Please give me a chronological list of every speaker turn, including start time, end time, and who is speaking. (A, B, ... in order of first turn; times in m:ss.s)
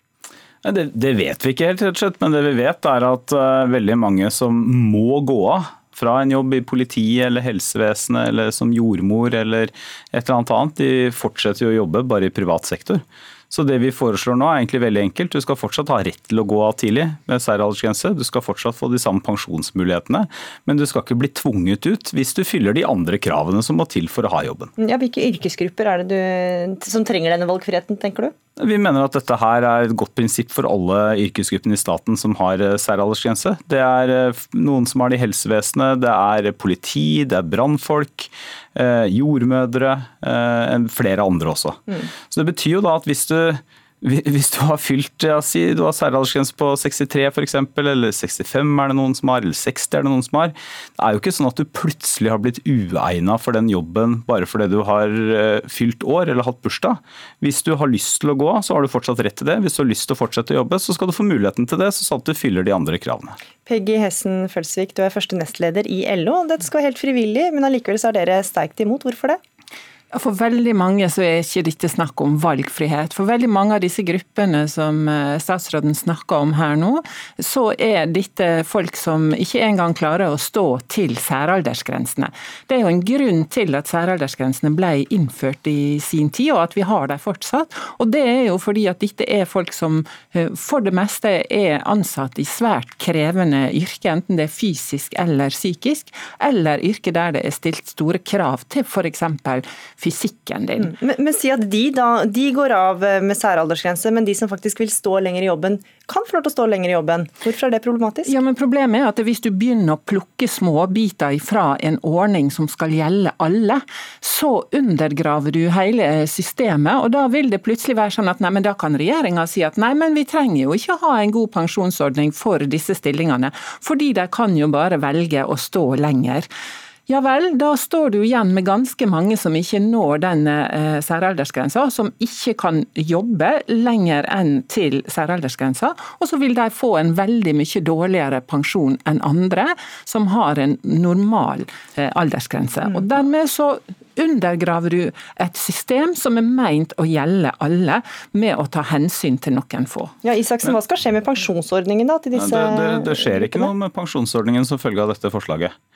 0:00.6-0:24.7 A
0:24.8-0:28.3 B
0:28.6-1:03.4 A
1:03.7-1:09.4 B
1:10.1-1:40.9 C
1:40.8-1:48.3 B
1:48.3-2:06.5 C
2:07.1-2:30.1 C
2:30.2-2:33.7 B
2:32.4-2:35.7 A